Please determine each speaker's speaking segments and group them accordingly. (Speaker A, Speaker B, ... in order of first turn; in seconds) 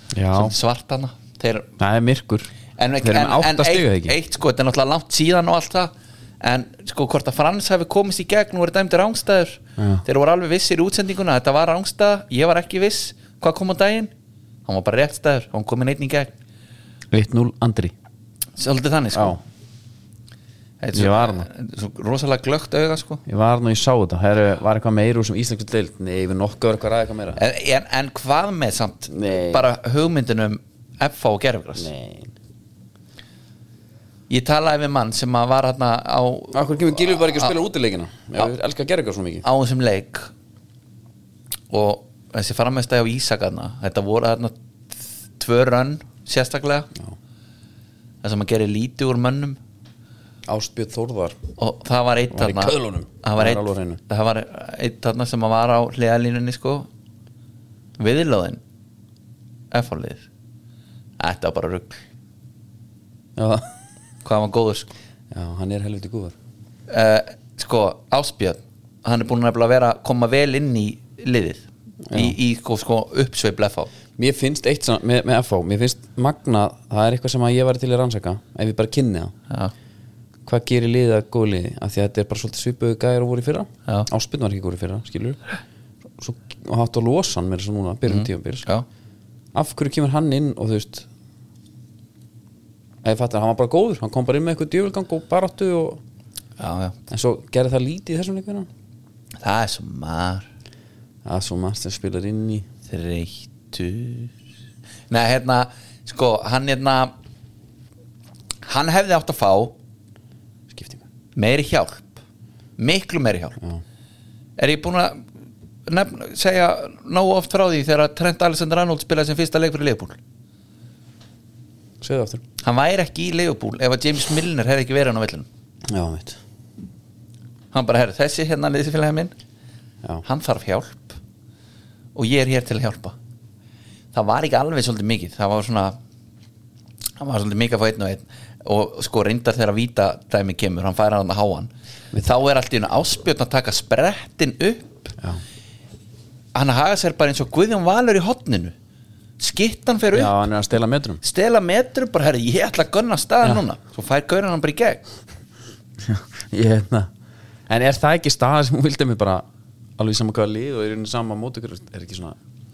Speaker A: 0.1-0.5, 1.8-2.5, 3.0-4.2, 9.8-10.0, 17.1-17.9, 19.1-19.4, 20.9-21.5, 23.3-27.4, 29.1-29.7, 31.8-32.3, 36.5-39.5, 50.5-51.4, 52.3-54.0, 63.4-63.7, 65.3-66.3, 72.1-72.4, 74.2-79.3, 80.5-85.4, 86.2-88.7, 89.5-91.1, 93.0-96.0, 97.1-98.7, 101.2-102.7, 110.7-111.0, 122.0-122.4, 125.9-126.4, 150.1-151.2, 156.0-157.1, 157.7-159.4, 160.0-162.4
Speaker B: 0.3-1.7, 2.8-14.1, 14.7-16.3, 18.6-19.4, 20.8-23.2, 27.4-31.9, 34.3-37.5, 39.4-40.3, 41.7-46.9, 48.2-49.6, 51.6-56.9, 58.0-58.6, 59.7-60.2, 61.2-62.0, 64.2-64.9, 66.9-73.9, 88.1-88.9, 96.6-97.0, 99.4-100.5, 102.9-104.3, 105.1-107.1, 108.7-109.8, 111.4-112.2, 112.8-113.6, 114.6-115.3, 115.9-120.2, 122.6-125.5, 127.7-129.3, 130.2-131.2, 132.2-133.2, 134.1-136.0, 137.2-145.1, 146.5-148.7, 149.4-150.3, 151.2-155.0